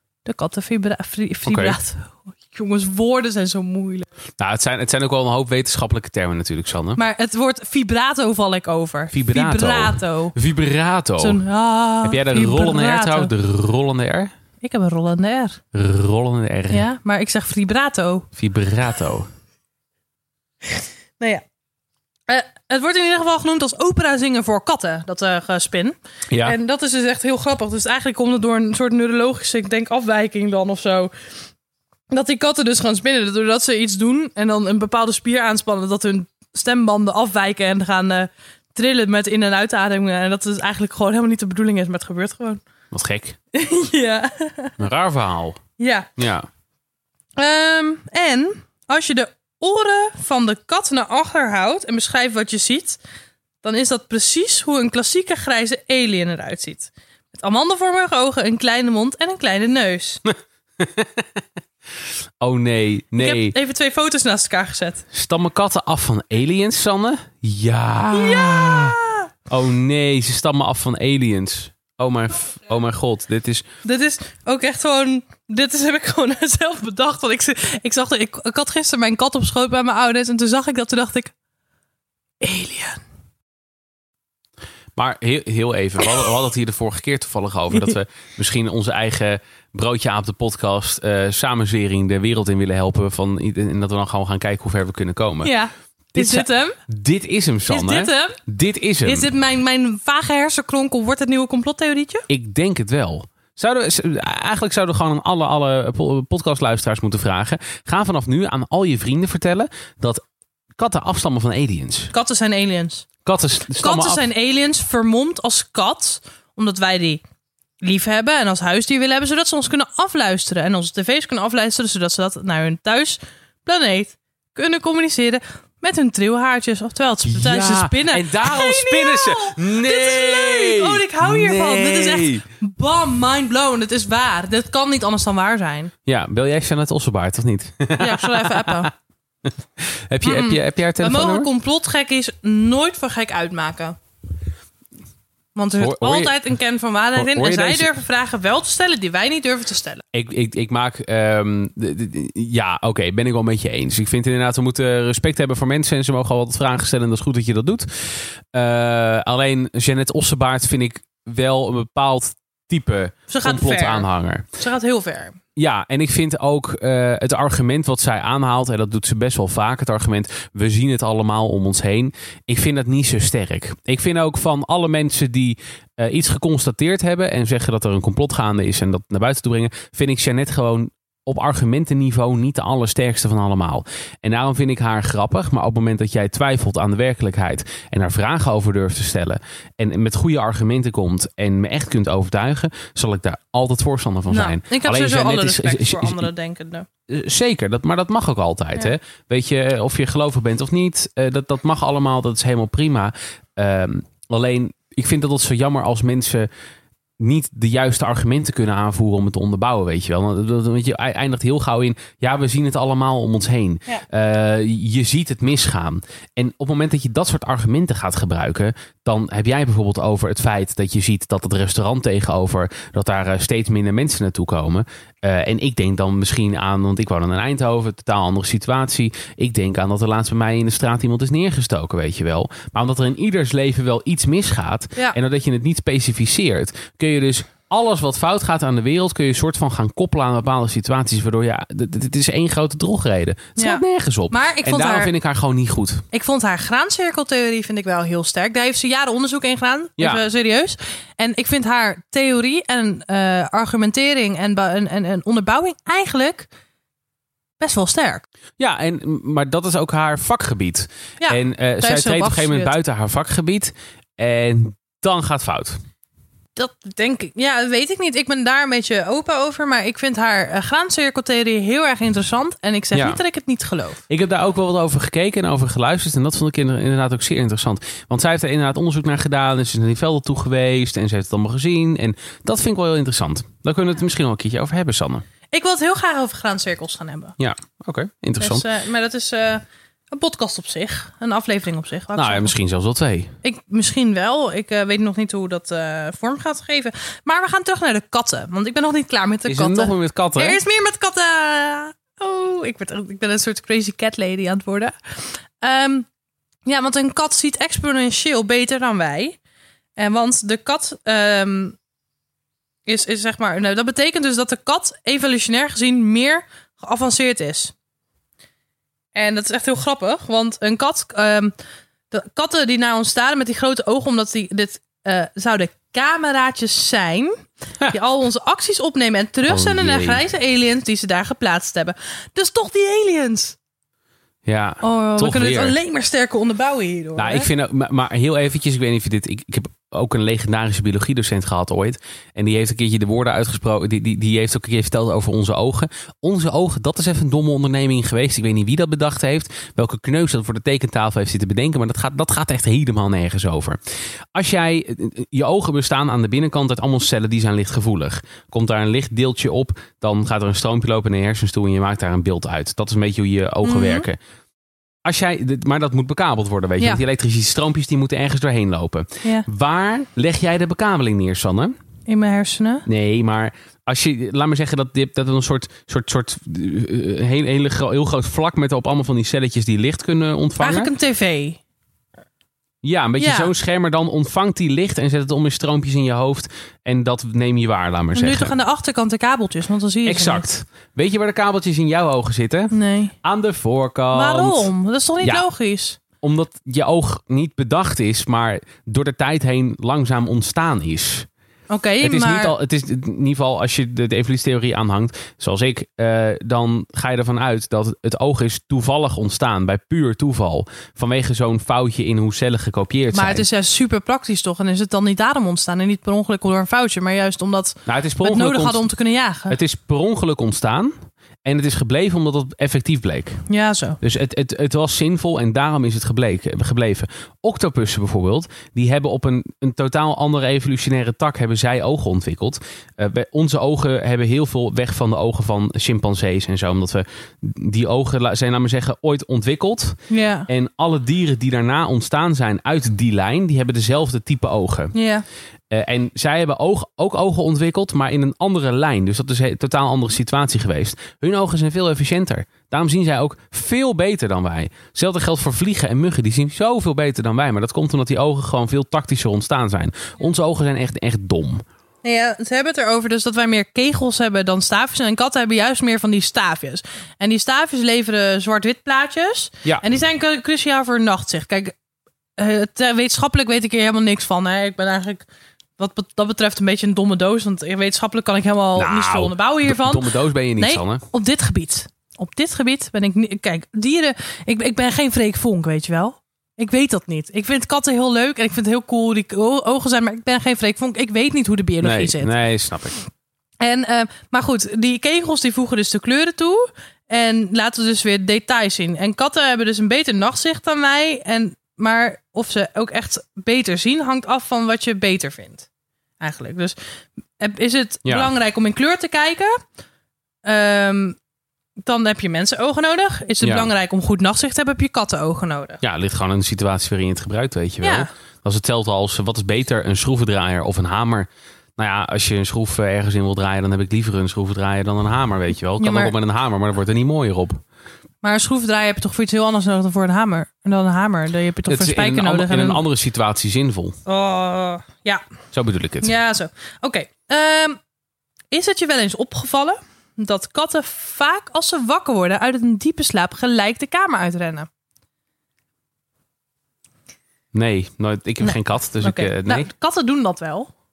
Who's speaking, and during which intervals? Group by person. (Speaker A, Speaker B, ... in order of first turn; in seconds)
Speaker A: 0.2-4.1, 7.0-10.3, 11.2-13.3, 14.6-15.6, 16.7-18.3, 20.8-21.4, 22.3-31.1, 32.1-42.6, 43.5-44.7, 45.8-46.1, 47.4-53.0, 53.6-60.2, 63.2-65.0, 68.1-69.3, 73.8-81.3, 82.4-83.0, 95.4-96.8, 97.7-98.4, 99.0-102.2, 112.1-113.1, 113.8-117.2, 117.8-135.9, 138.0-138.9, 140.2-144.0, 145.5-150.0, 163.3-164.1, 164.6-165.4, 194.3-196.9, 243.6-245.1, 246.1-256.5, 257.6-258.2, 261.2-262.7, 266.5-274.0, 285.5-287.3, 288.4-292.5, 293.4-306.1, 306.6-309.4, 310.0-311.8, 312.9-317.7, 319.1-321.5, 322.1-333.6, 334.8-337.5, 363.6-364.1, 372.1-372.9, 380.6-381.6, 383.2-383.5, 388.1-390.5, 392.7-393.1, 394.1-396.0, 401.7-402.5, 413.1-419.6, 423.5-424.0, 440.1-440.5, 444.9-445.2, 462.0-471.8, 472.4-475.3, 475.8-492.3, 493.6-505.7, 506.2-506.8, 507.4-509.6, 510.4-511.2, 511.8-515.8, 517.8-518.1, 525.8-526.1, 528.2-532.8, 534.0-535.2, 536.0-537.8, 538.5-544.7, 548.4-550.7
Speaker B: 1.4-1.8, 4.4-7.0, 9.1-11.4, 12.0-14.3, 15.7-16.8, 18.4-19.3, 26.3-26.6, 42.9-43.4, 44.8-45.6, 46.2-46.5, 60.3-61.2, 62.4-63.5, 65.1-69.0, 69.5-73.7, 85.0-95.5, 96.1-99.3, 102.3-110.2, 110.7-112.1, 113.2-114.2, 127.3-132.4, 136.1-138.9, 139.8-141.5, 145.8-146.4, 147.1-147.9, 150.1-164.4, 165.6-196.3, 197.1-206.5, 207.2-246.0, 250.0-250.2, 258.6-265.8, 272.9-273.2, 274.1-285.2, 287.4-288.6, 292.1-293.3, 299.4-300.6, 329.4-330.2, 334.4-335.8, 337.1-353.8, 354.3-364.2, 365.0-371.8, 372.9-380.9, 382.8-388.5, 390.1-394.7, 396.2-401.3, 402.0-413.4, 417.9-418.8, 419.5-423.4, 424.0-444.9, 445.7-461.6, 478.8-481.0, 491.8-493.0, 508.0-508.3, 513.4-513.7, 515.8-527.6, 531.7-534.0, 535.5-536.1, 547.5-549.7